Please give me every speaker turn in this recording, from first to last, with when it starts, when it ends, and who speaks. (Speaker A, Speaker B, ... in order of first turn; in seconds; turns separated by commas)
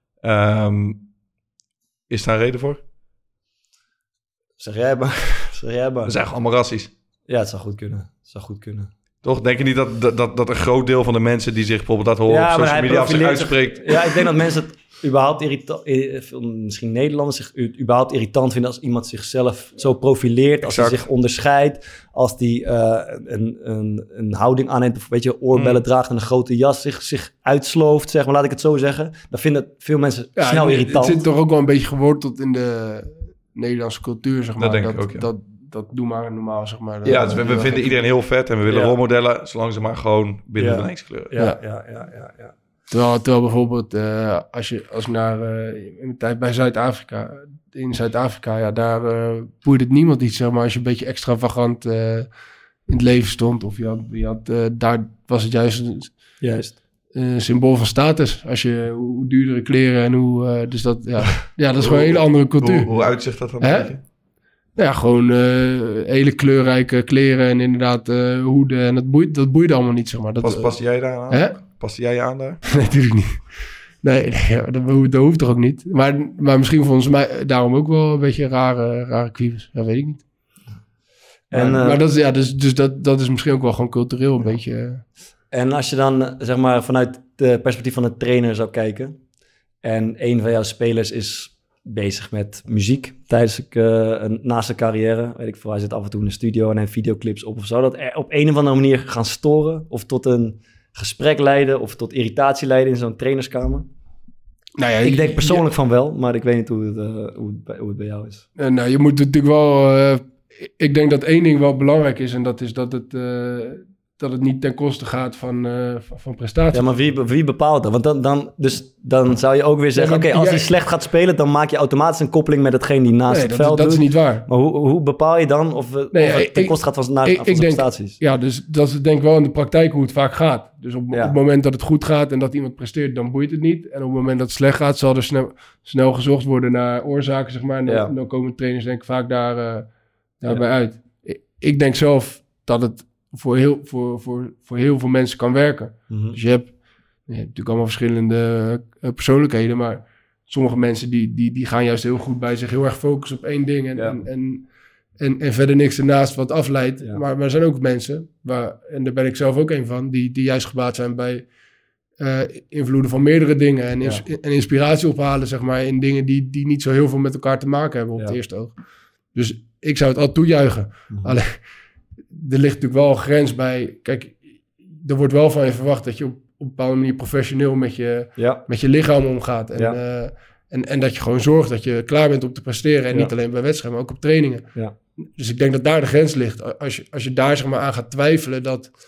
Speaker A: 0.2-1.0, Speaker A: 2.1-2.8, Speaker B: 4.6-6.2, Speaker A: 6.1-6.9, Speaker B: 7.3-8.9, Speaker A: 9.2-14.3, Speaker B: 12.3-31.2, Speaker A: 20.6-21.1, Speaker A: 25.5-25.8, Speaker C: 30.4-37.8, Speaker A: 34.6-35.3, Speaker A: 37.0-41.3, Speaker B: 38.7-39.0, Speaker B: 40.6-42.5, Speaker C: 42.9-52.3, Speaker C: 52.9-56.1, Speaker B: 56.4-56.8, Speaker C: 57.1-62.9, Speaker A: 61.8-64.0, Speaker C: 63.6-63.9, Speaker C: 64.8-70.7, Speaker A: 70.4-72.6, Speaker C: 71.3-71.6, Speaker C: 72.7-73.4, Speaker C: 74.0-80.2, Speaker B: 81.5-82.0, Speaker C: 81.5-85.0, Speaker B: 85.5-89.2, Speaker B: 89.8-103.9, Speaker C: 104.8-105.7, Speaker B: 105.0-108.5, Speaker C: 108.6-116.8, Speaker B: 116.7-128.2, Speaker C: 120.0-120.7, Speaker C: 123.3-124.5, Speaker C: 126.1-126.8, Speaker C: 127.3-139.9, Speaker B: 137.9-138.1, Speaker C: 140.4-146.7, Speaker B: 146.1-146.4, Speaker C: 147.3-154.7, Speaker B: 154.0-154.2, Speaker C: 155.2-161.5, Speaker C: 162.2-168.7, Speaker C: 169.3-171.5, Speaker C: 172.3-184.7, Speaker B: 178.4-178.7, Speaker C: 185.4-188.9